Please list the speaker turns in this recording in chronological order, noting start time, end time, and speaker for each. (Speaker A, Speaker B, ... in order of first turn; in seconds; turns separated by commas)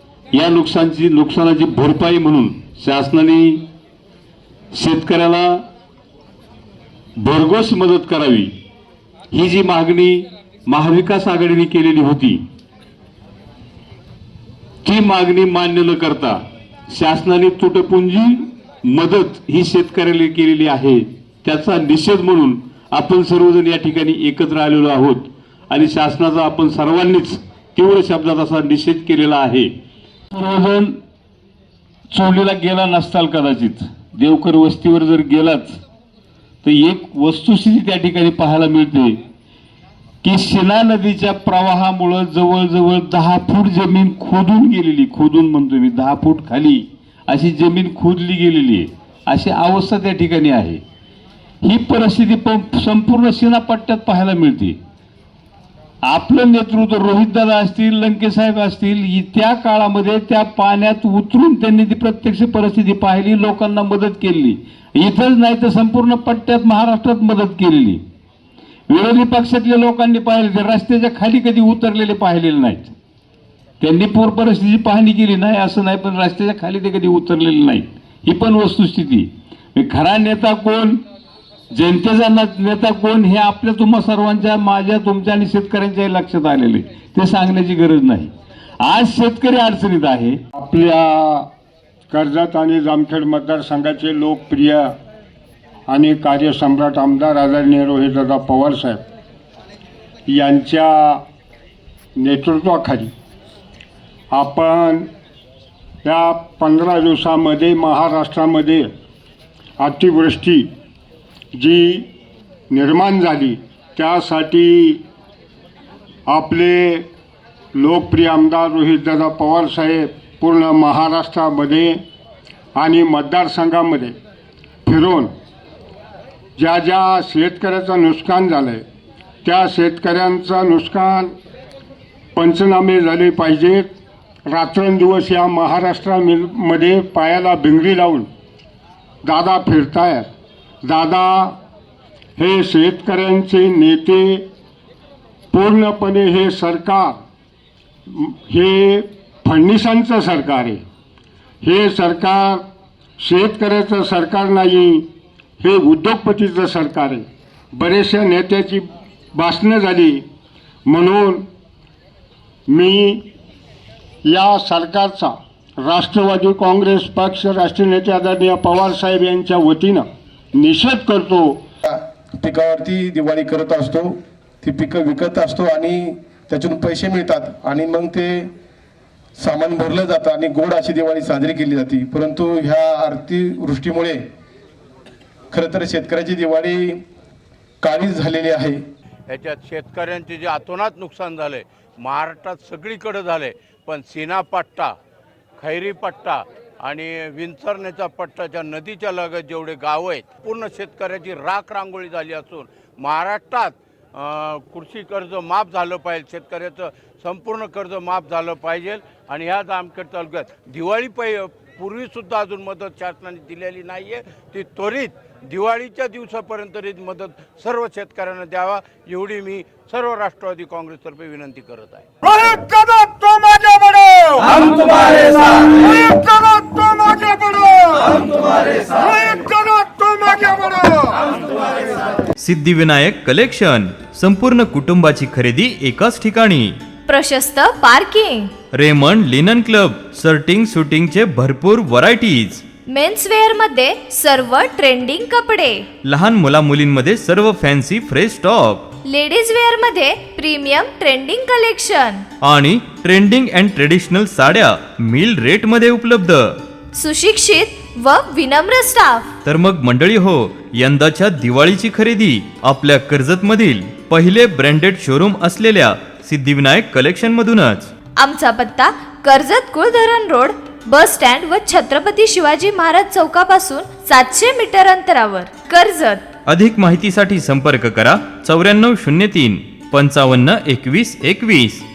Speaker A: 0.3-3.6, Speaker A: 4.7-5.7, Speaker A: 7.2-8.5, Speaker A: 9.3-12.4, Speaker A: 14.8-16.4, Speaker A: 16.9-29.7, Speaker A: 30.3-31.0, Speaker A: 32.1-35.8, Speaker A: 36.6-39.2, Speaker A: 40.2-50.8, Speaker A: 51.6-54.8, Speaker A: 56.0-68.0, Speaker A: 68.9-72.9, Speaker A: 73.8-81.0, Speaker A: 81.7-90.4, Speaker B: 90.5-91.5, Speaker B: 92.1-94.9, Speaker B: 95.9-99.0, Speaker B: 100.3-101.2, Speaker B: 102.2-103.1, Speaker B: 104.3-105.1, Speaker B: 106.0-108.9, Speaker B: 109.8-110.7, Speaker B: 111.5-112.1, Speaker B: 112.7-115.0, Speaker B: 116.3-117.1, Speaker B: 117.7-122.0, Speaker B: 122.8-124.2, Speaker B: 124.8-125.3, Speaker B: 126.6-128.8, Speaker B: 129.4-131.3, Speaker B: 132.3-133.9, Speaker B: 134.5-138.3, Speaker B: 139.2-140.3, Speaker B: 140.8-141.6, Speaker B: 142.4-144.4, Speaker B: 145.5-147.2, Speaker B: 148.1-150.8, Speaker B: 151.6-152.6, Speaker B: 153.2-155.1, Speaker B: 155.6-160.2, Speaker B: 160.8-161.4, Speaker B: 162.7-163.2, Speaker B: 164.2-171.6, Speaker C: 171.8-178.5, Speaker C: 179.4-184.2, Speaker C: 185.5-187.0, Speaker C: 187.8-188.8, Speaker D: 189.3-194.9, Speaker D: 195.6-222.1, Speaker B: 222.2-231.2, Speaker E: 232.4-236.8, Speaker F: 237.1-238.5, Speaker E: 238.7-242.6, Speaker F: 242.9-245.9, Speaker E: 246.0-248.9, Speaker F: 249.0-252.2, Speaker E: 252.4-256.5, Speaker F: 256.9-259.3, Speaker E: 259.4-267.9, Speaker F: 268.1-276.3, Speaker E: 276.4-281.8